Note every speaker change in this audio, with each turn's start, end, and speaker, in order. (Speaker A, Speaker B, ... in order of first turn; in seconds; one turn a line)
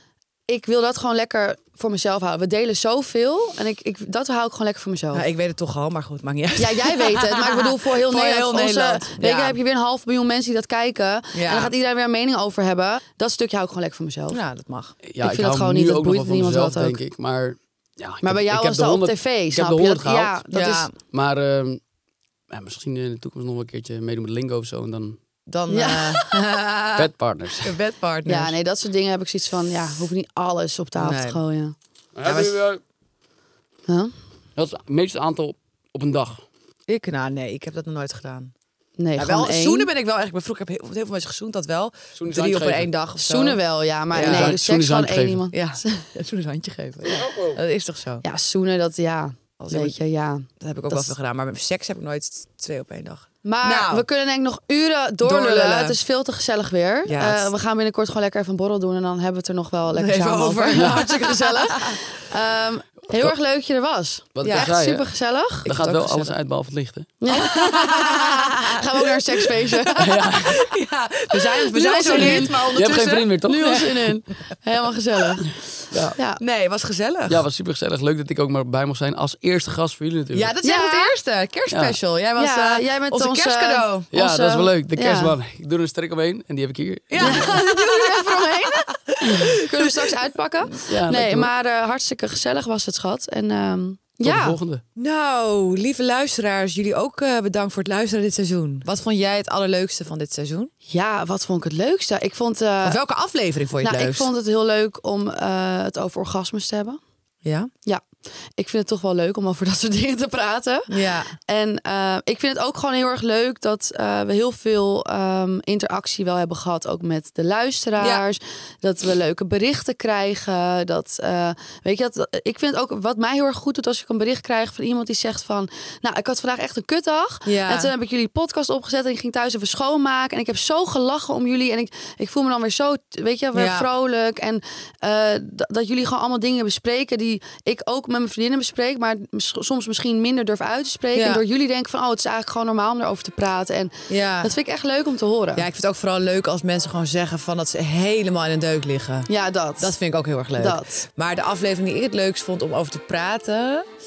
Speaker A: 0.5-5.2
Speaker B: 5.1-9.6
Speaker A: 6.6-14.4
Speaker B: 11.3-11.7
Speaker B: 14.3-15.0
Speaker C: 15.0-20.3
Speaker A: 15.2-17.0
Speaker A: 18.2-20.9
Speaker B: 20.5-20.9
Speaker C: 21.1-21.8
Speaker C: 22.5-25.2
Speaker B: 25.5-27.1
Speaker A: 25.7-26.5
Speaker C: 26.9-27.8
Speaker B: 27.6-28.5
Speaker A: 28.3-31.7
Speaker B: 31.0-31.4
Speaker C: 32.1-32.8
Speaker B: 32.2-32.6
Speaker A: 33.9-34.1
Speaker C: 34.5-36.4
Speaker B: 36.9-38.5
Speaker A: 39.0-39.9
Speaker B: 39.2-43.6
Speaker C: 42.1-42.9
Speaker A: 43.2-45.9
Speaker B: 44.1-44.6
Speaker C: 44.1-45.4
Speaker B: 45.5-48.2
Speaker C: 47.1-47.6
Speaker A: 48.2-51.1
Speaker B: 49.6-50.0
Speaker B: 50.6-54.0
Speaker A: 53.4-65.7
Speaker B: 55.2-56.0
Speaker B: 57.0-57.5
Speaker B: 59.9-62.1
Speaker C: 60.7-61.0
Speaker C: 64.3-65.1
Speaker B: 64.4-64.7
Speaker C: 65.6-67.1
Speaker B: 65.7-66.3
Speaker A: 67.2-70.3
Speaker B: 67.3-74.2
Speaker C: 70.0-70.7
Speaker A: 71.3-75.5
Speaker C: 72.1-73.9
Speaker C: 75.9-76.2
Speaker B: 76.4-77.4
Speaker C: 77.3-80.5
Speaker B: 80.3-84.1
Speaker A: 80.6-81.1
Speaker C: 81.7-82.0
Speaker A: 82.3-85.3
Speaker C: 84.1-87.5
Speaker B: 87.1-90.0
Speaker A: 87.2-94.6
Speaker C: 90.9-91.5
Speaker C: 94.2-94.8
Speaker B: 95.0-100.7
Speaker A: 100.9-103.0
Speaker B: 102.8-104.3
Speaker A: 103.8-107.0
Speaker B: 107.4-107.7
Speaker A: 108.5-145.7
Speaker B: 110.9-111.3
Speaker B: 127.5-127.9
Speaker B: 133.5-133.9
Speaker B: 141.1-141.4
Speaker B: 144.1-144.5
Speaker B: 145.6-149.3
Speaker A: 149.3-149.9
Speaker B: 149.8-153.9
Speaker A: 150.6-151.0